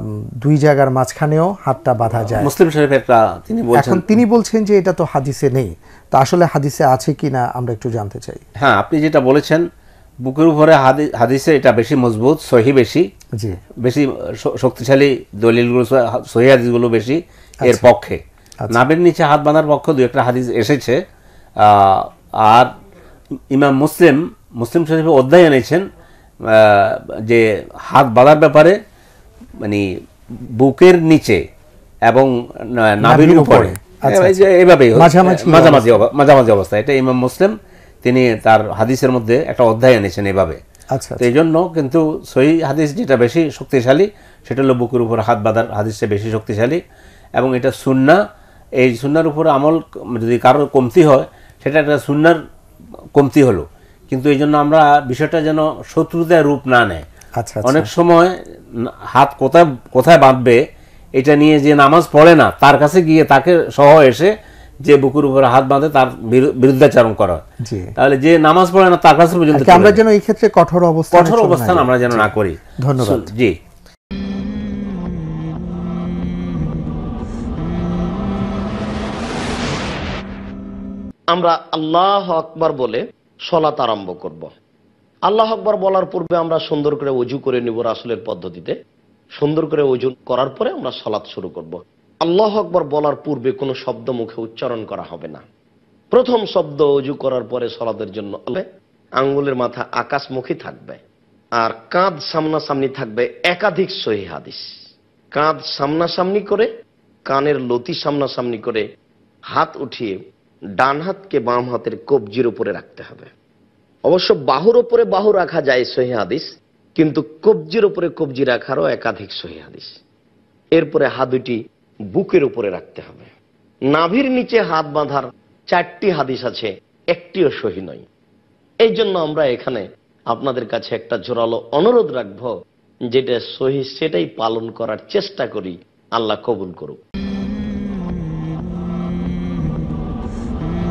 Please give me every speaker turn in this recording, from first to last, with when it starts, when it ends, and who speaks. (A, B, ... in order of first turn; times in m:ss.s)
0:00.4-0:02.5 A
0:02.3-0:04.2 B
0:03.7-0:08.4 A
0:08.6-0:09.7 B
0:10.2-0:13.1 B
0:13.8-0:21.0 B
0:21.6-0:22.7 B
0:23.5-0:25.9 B
0:26.5-0:28.8 B
0:29.6-0:31.4 B
0:32.0-0:40.6 B
0:33.0-0:36.0 A
0:40.9-0:41.2 A
0:41.2-0:46.8 B
0:47.4-0:48.2 B
0:48.8-0:52.4 B
0:53.1-0:57.0 B
0:57.4-0:57.9 A
0:57.7-1:00.6 B
1:01.2-1:07.4 B
1:07.6-1:07.9 A
1:08.0-1:10.0 B
1:09.5-1:13.3 A
1:11.1-1:13.6 B
1:21.3-1:24.5 C
1:25.3-1:28.7 C
1:29.4-1:35.4 C
1:36.1-1:38.6 C
1:39.2-1:41.0 C
1:41.6-1:44.6 C
1:45.3-1:46.7 C
1:47.3-1:48.8 C
1:49.5-1:50.2 C
1:50.8-1:53.3 C
1:54.1-1:59.9 C
2:00.8-2:01.6 C
2:02.1-2:03.3 C
2:03.9-2:08.0 C
2:08.8-2:12.5 C
2:13.1-2:17.0 C